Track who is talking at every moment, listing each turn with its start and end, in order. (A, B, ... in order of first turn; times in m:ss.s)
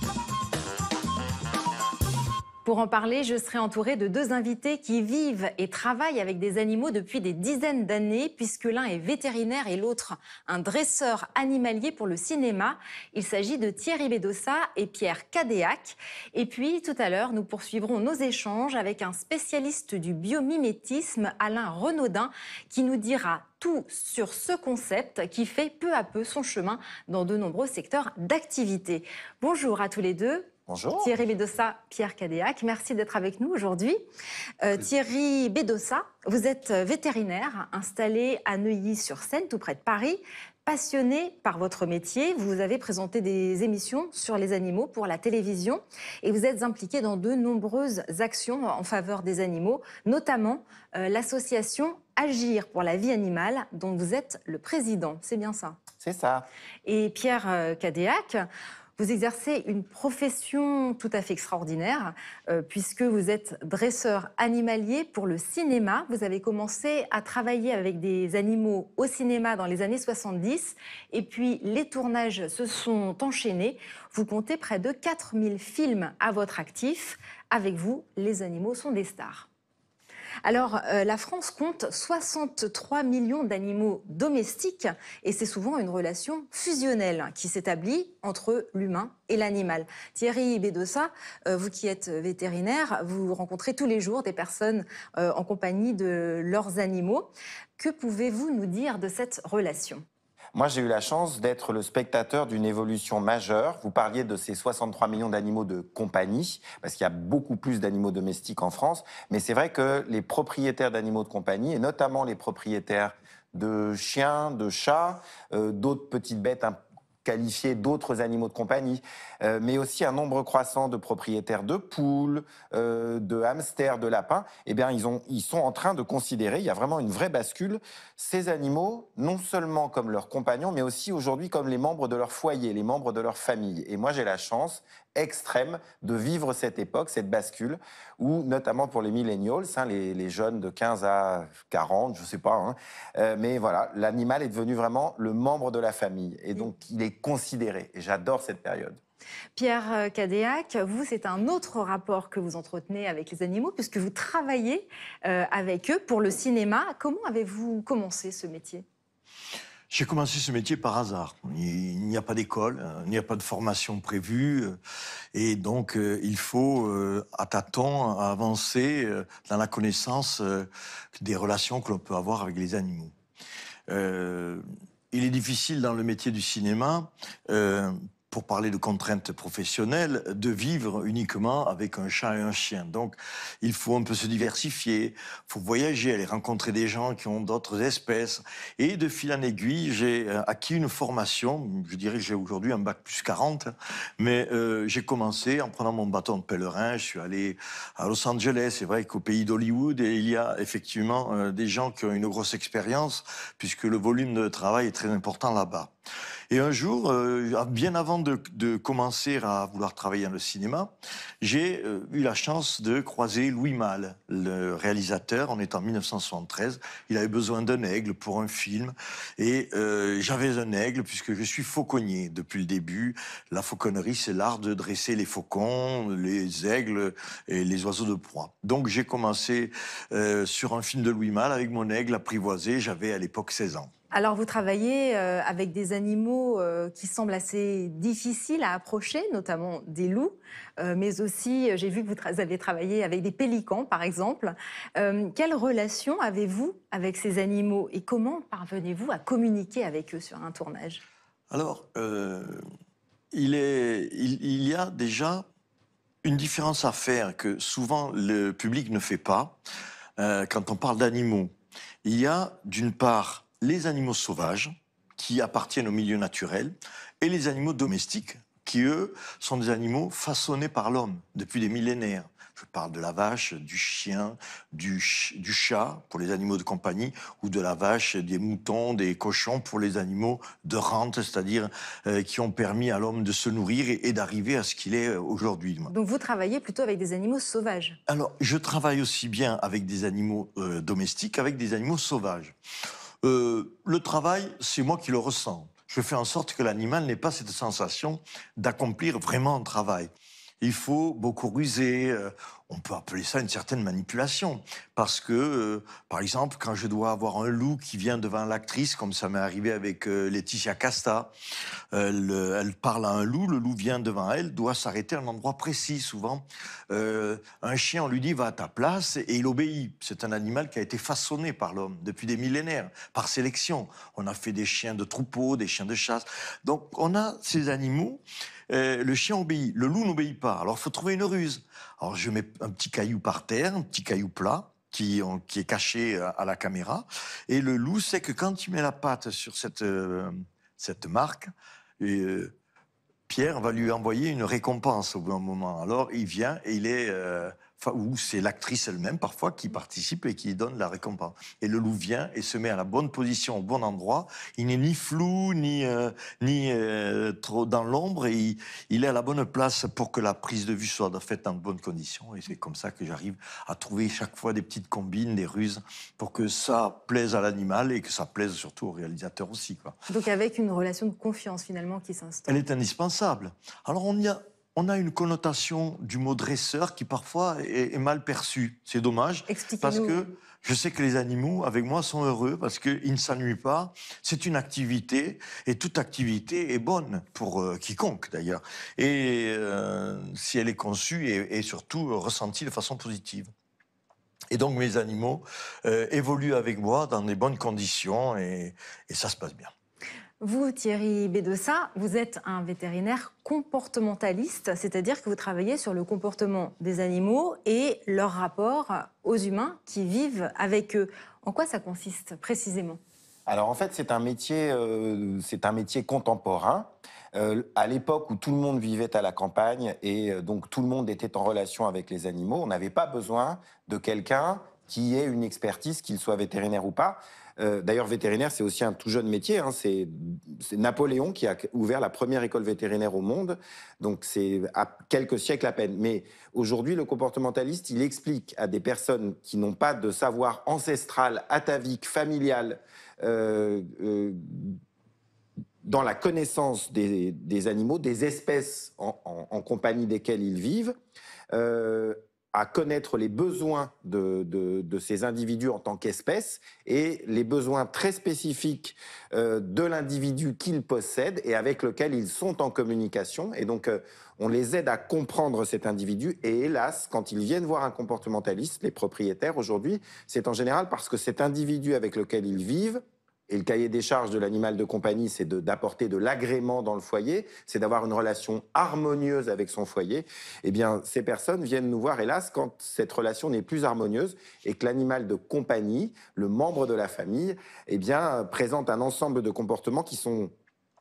0:02.6-0:34.0 A
0:30.7-0:31.2 B
0:34.6-0:55.8 A
0:56.0-0:56.5 B
0:56.8-0:58.4 A
0:59.0-1:19.5 A
1:20.4-1:40.0 A
1:40.5-2:29.0 B
2:29.6-2:38.8 A
2:39.9-2:44.8 C
2:45.3-2:53.1 C
2:53.9-3:25.9 C
3:26.5-3:53.9 C
3:54.1-4:11.0 A
4:11.5-4:12.6 C
4:13.3-4:15.4 C
4:16.2-4:19.6 C
4:20.2-4:21.5 C
4:22.0-4:45.9 C
4:45.9-4:48.0 A
4:48.1-4:52.5 C
4:53.2-5:11.3 C
5:11.9-5:42.5 C
5:43.3-6:10.0 C
6:10.1-6:12.6 A
6:12.5-6:33.5 C
6:19.5-6:20.2 A
6:34.5-6:39.7 C
6:40.4-6:53.0 A
6:53.5-7:24.8 B
7:25.8-7:31.0 B
7:31.5-8:10.5 B